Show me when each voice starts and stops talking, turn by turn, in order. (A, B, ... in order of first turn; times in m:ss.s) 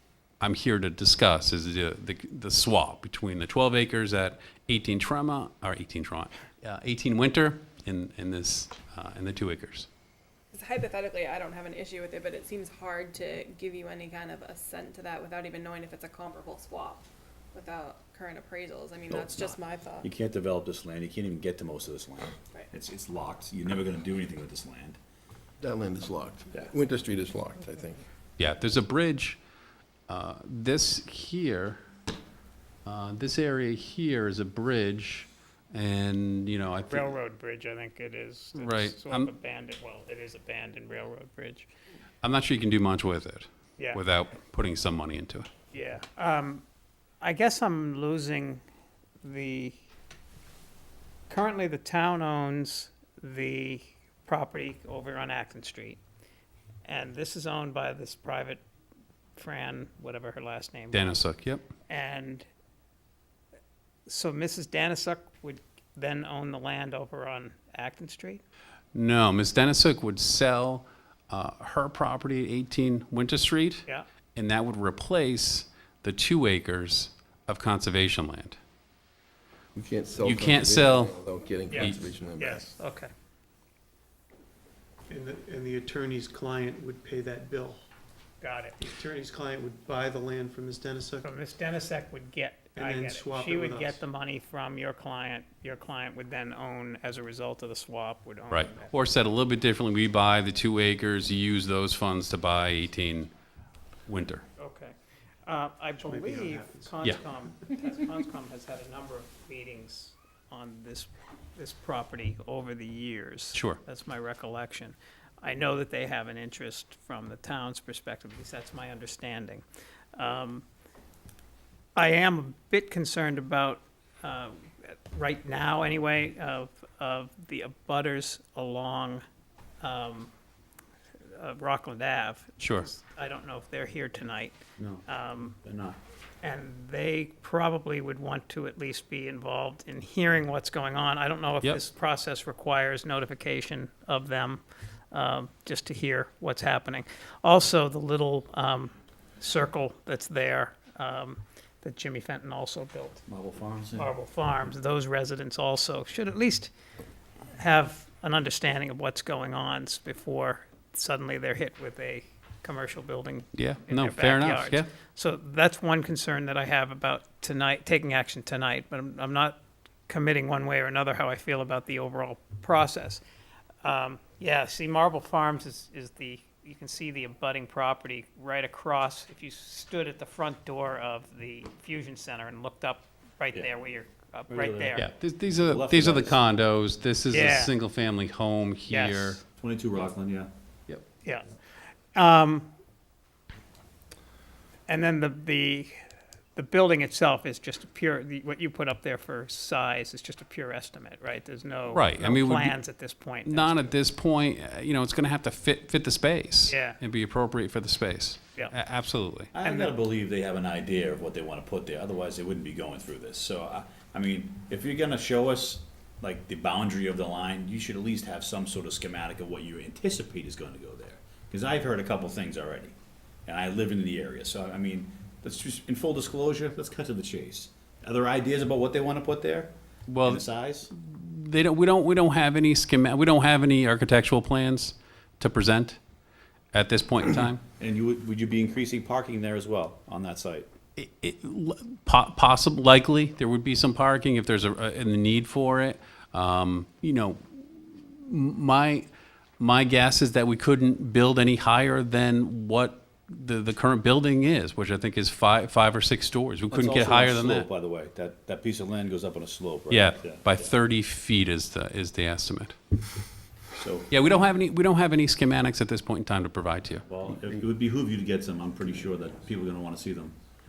0:00.4-0:09.9 A
0:10.5-0:20.1 B
0:19.1-0:25.0 C
0:25.6-0:28.0 D
0:28.4-0:29.4 A
0:30.1-0:31.8 A
0:32.8-0:37.2 A
0:36.9-0:41.7 E
0:38.6-0:39.3 A
0:42.2-0:45.5 A
0:45.7-0:46.6 E
0:47.2-0:48.6 E
0:49.2-0:49.8 E
0:51.3-0:56.0 E
0:56.8-0:58.6 E
0:59.4-1:01.3 E
1:00.9-1:01.6 A
1:01.9-1:02.5 E
1:04.0-1:08.4 E
1:08.9-1:18.6 A
1:19.7-1:22.7 D
1:20.2-1:21.2 A
1:21.7-1:23.1 E
1:25.1-1:27.8 F
1:28.4-1:28.8 E
1:28.8-1:31.3 F
1:31.2-1:38.9 E
1:32.8-1:34.0 F
1:38.5-1:43.3 A
1:44.1-1:44.4 A
1:44.6-1:44.9 E
1:45.4-1:59.6 E
1:46.0-1:47.0 F
1:53.5-1:53.8 A
2:00.2-2:00.6 E
2:02.0-2:09.2 E
2:09.8-2:10.3 E
2:11.3-2:15.6 E
2:12.6-2:12.9 A
2:14.8-2:15.0 C
2:15.6-2:16.0 C
2:16.4-2:33.2 E
2:33.3-2:34.1 C
2:34.0-2:36.7 E
2:37.5-2:53.2 E
2:43.5-2:44.9 A
2:53.8-3:05.0 E
3:04.5-3:06.4 C
3:05.0-3:09.4 A
3:07.3-3:07.7 E
3:08.9-3:09.4 E
3:09.6-3:10.5 C
3:12.1-3:12.7 E
3:14.9-3:15.9 E
3:16.6-3:23.9 E
3:21.9-3:22.8 A
3:23.4-3:29.5 A
3:26.6-3:27.0 E
3:29.5-3:42.9 C
3:29.6-3:29.9 E
3:43.4-3:50.9 C
3:50.1-3:56.0 A
3:56.7-3:57.6 A
3:57.8-4:00.7 C
4:01.0-4:09.1 A
4:09.6-4:17.7 A
4:16.7-4:20.7 C
4:19.9-4:22.8 A
4:23.7-4:24.2 C
4:24.1-4:27.0 A
4:27.0-4:30.4 C